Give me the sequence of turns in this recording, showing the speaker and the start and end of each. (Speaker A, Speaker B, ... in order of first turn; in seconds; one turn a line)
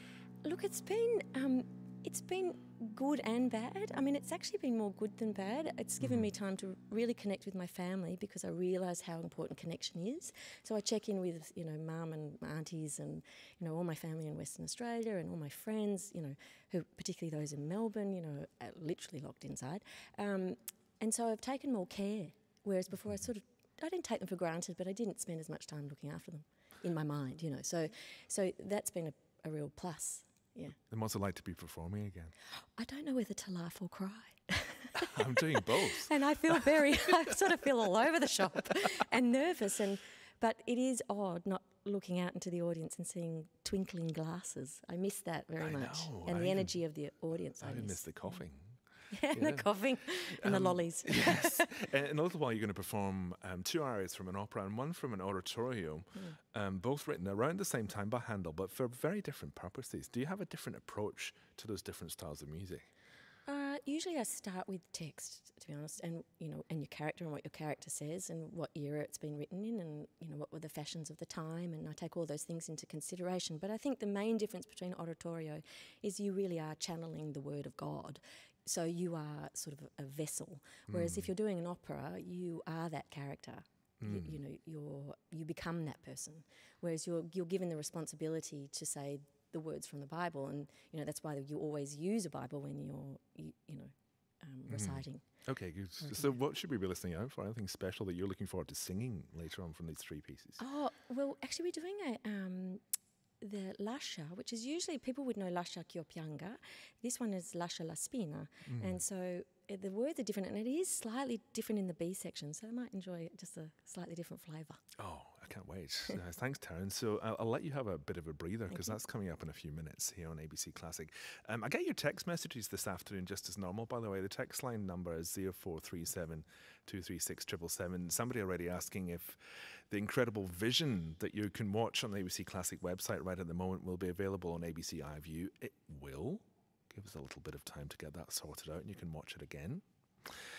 Speaker A: 0.4-30.8
Speaker B: 6.0-6.3
Speaker B: 30.9-32.3
Speaker A: 32.6-48.4
Speaker B: 35.0-36.6
Speaker B: 45.6-46.8
Speaker B: 47.6-48.8
Speaker A: 49.1-51.8
Speaker B: 49.3-62.9
Speaker A: 63.5-95.2
Speaker B: 80.9-81.3
Speaker B: 84.0-84.4
Speaker B: 94.7-100.6
Speaker A: 100.6-102.8
Speaker A: 103.4-114.8
Speaker B: 108.7-109.0
Speaker B: 115.0-140.4